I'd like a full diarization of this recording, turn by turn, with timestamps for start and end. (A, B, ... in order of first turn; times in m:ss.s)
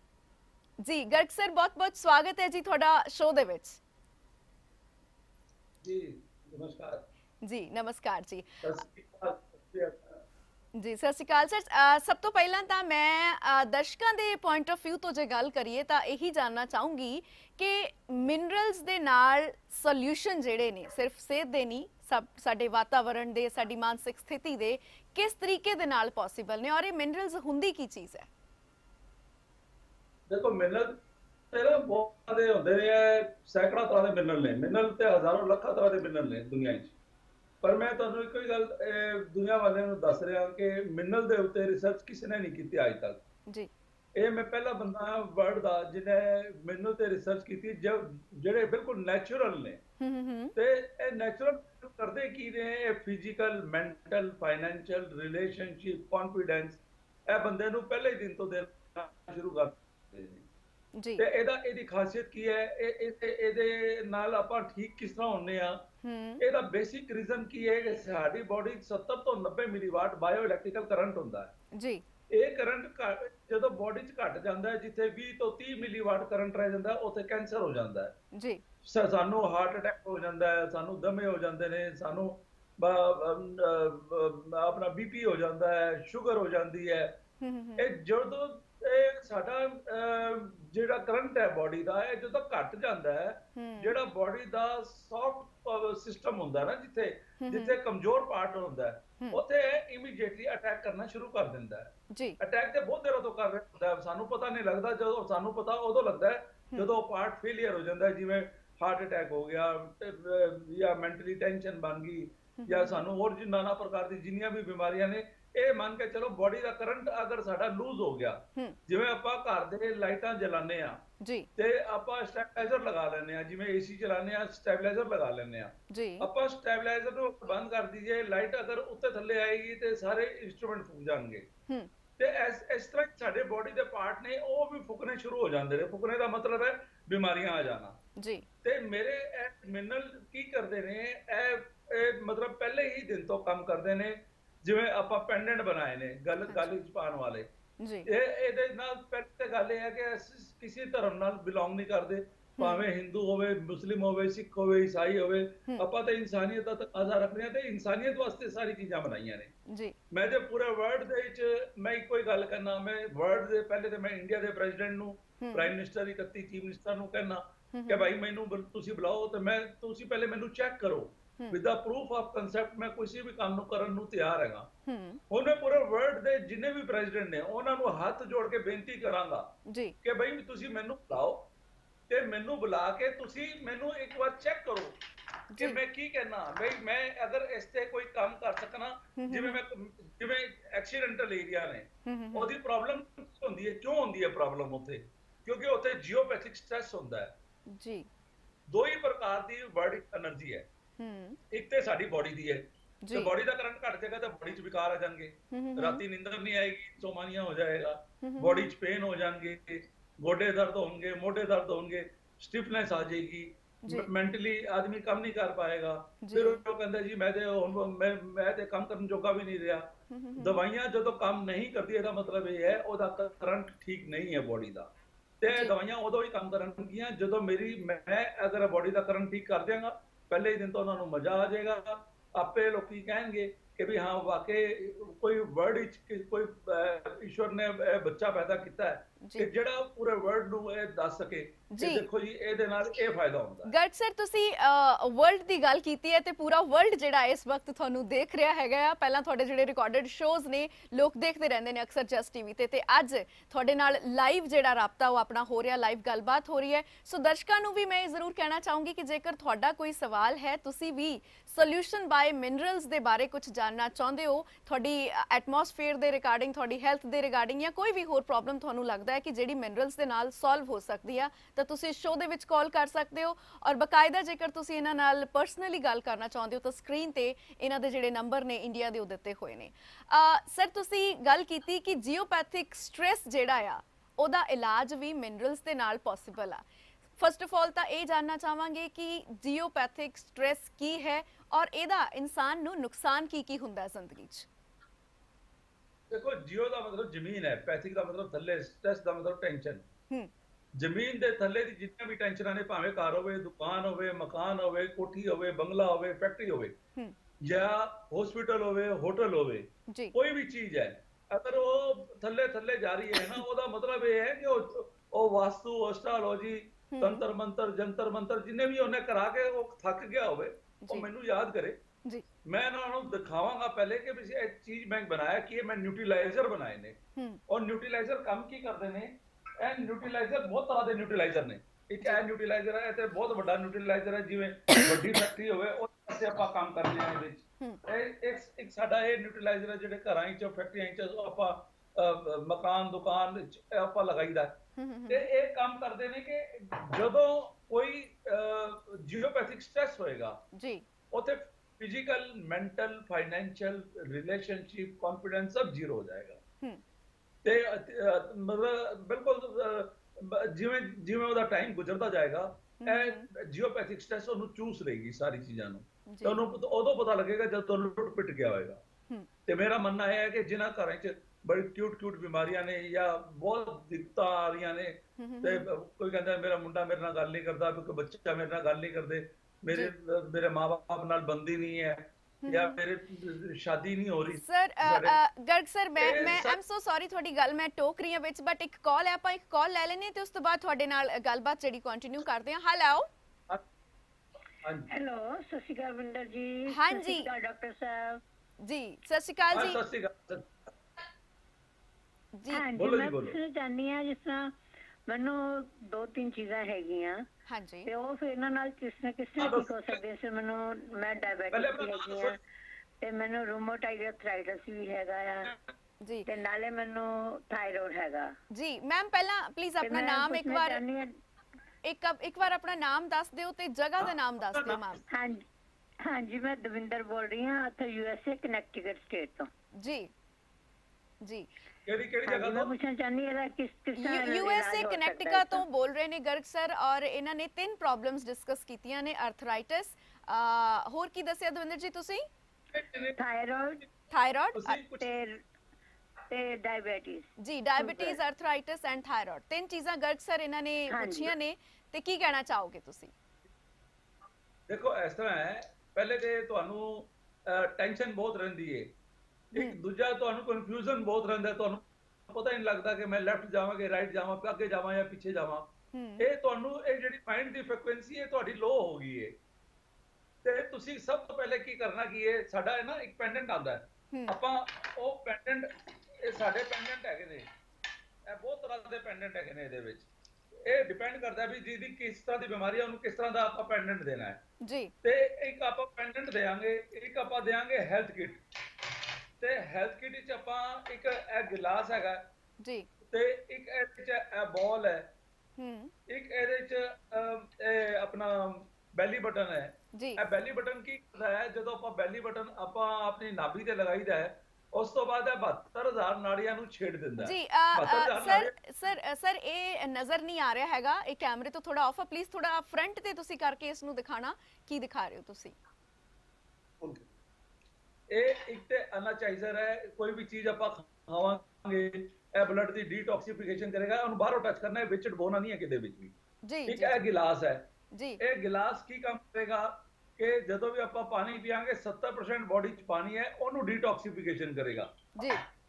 0:00.8-0:03.8 A
0:05.8-0:07.0 B
0:07.4-0:08.6 A
0:08.6-0:10.2 B
0:10.8-0:28.3 A
0:30.3-0:31.0 B
0:31.5-0:36.9 B
0:37.6-0:43.2 B
0:44.2-0:49.8 B
0:50.0-0:50.5 A
0:50.5-1:00.5 B
1:01.0-1:01.2 A
1:01.2-1:05.8 B
1:06.0-1:06.4 A
1:06.4-1:11.5 B
1:11.7-1:12.0 A
1:12.3-1:18.2 B
1:18.3-1:18.6 A
1:18.8-1:27.2 B
1:27.4-1:27.9 A
1:27.8-2:01.0 B
1:33.6-1:33.9 A
1:37.4-1:37.8 A
1:42.1-1:42.4 A
1:52.6-1:53.0 A
2:01.2-2:01.5 A
2:01.6-2:11.5 B
2:05.9-2:06.3 A
2:12.2-2:18.0 B
2:18.2-2:18.4 A
2:18.6-2:27.5 B
2:26.5-2:26.7 A
2:27.8-2:28.1 A
2:28.0-2:39.5 B
2:32.6-2:32.8 A
2:39.7-2:40.0 A
2:40.1-2:54.7 B
2:45.4-2:45.7 A
2:47.7-2:48.1 A
2:54.8-2:55.2 A
2:55.3-2:59.5 B
2:59.7-3:00.0 A
3:00.0-3:01.5 B
3:02.1-3:05.0 B
3:05.5-3:05.8 A
3:05.6-3:17.3 B
3:09.2-3:09.6 A
3:12.0-3:12.5 A
3:17.7-3:18.1 A
3:18.7-3:20.7 B
3:21.0-3:21.4 A
3:21.5-4:03.7 B
3:23.0-3:23.3 A
3:25.5-3:26.0 A
3:28.2-3:28.7 A
3:36.2-3:36.6 A
3:40.1-3:40.6 A
3:59.2-3:59.5 A
4:01.7-4:02.0 A
4:03.6-4:46.6 A
4:47.2-4:54.5 A
4:56.1-4:59.9 B
5:00.8-5:06.8 B
5:07.4-5:21.8 B
5:16.9-5:17.2 A
5:20.8-5:21.1 A
5:22.4-5:27.0 B
5:27.2-5:27.4 A
5:27.5-5:50.4 B
5:44.8-5:45.2 A
5:50.5-5:50.8 A
5:51.1-5:56.4 B
5:57.4-6:08.8 B
6:02.8-6:03.3 A
6:06.1-6:06.4 A
6:09.5-6:25.2 B
6:15.2-6:15.6 A
6:22.4-6:22.8 A
6:24.4-6:33.1 A
6:26.0-6:26.6 B
6:34.6-6:34.9 B
6:34.9-6:38.2 C
6:36.7-6:37.3 A
6:38.6-6:39.8 A
6:39.5-6:40.7 B
6:42.4-6:42.6 A
6:42.5-6:44.5 C
6:42.7-6:43.4 B
6:45.1-6:47.2 C
6:47.5-6:47.9 A
6:47.9-6:52.4 C
6:49.4-6:50.0 B
6:51.5-6:52.4 B
6:53.0-6:55.6 C
6:56.0-6:56.3 A
6:56.3-6:58.3 C
6:58.5-7:00.8 A
6:59.8-7:01.1 C
7:01.8-7:05.0 A
7:04.0-7:05.0 B
7:05.1-7:05.4 C
7:06.0-7:09.5 C
7:09.8-7:10.1 A
7:11.8-7:12.7 B
7:12.2-7:15.6 C
7:14.0-7:22.2 A
7:22.7-7:23.2 B
7:23.2-7:23.8 C
7:24.1-7:24.8 A
7:24.5-7:25.2 B
7:25.0-7:25.4 C
7:26.3-7:28.2 C
7:27.4-7:33.1 A
7:30.9-7:31.3 C
7:34.7-7:38.9 B
7:39.5-7:49.4 B
7:45.9-7:46.3 A
7:50.4-7:57.5 B
7:58.2-8:00.1 B
8:00.6-8:04.4 B
8:04.6-8:04.9 A
8:05.0-8:08.9 B
8:09.4-8:12.3 B
8:12.6-8:12.9 A
8:13.0-8:15.1 B
8:15.6-8:15.9 A
8:16.1-8:28.5 B
8:19.9-8:20.2 A
8:27.2-8:35.6 A
8:36.8-8:37.1 B
8:38.1-8:46.1 B
8:46.4-8:47.0 A
8:46.7-8:47.7 B
8:47.9-8:48.2 A
8:48.2-8:54.9 B
8:55.2-8:55.4 A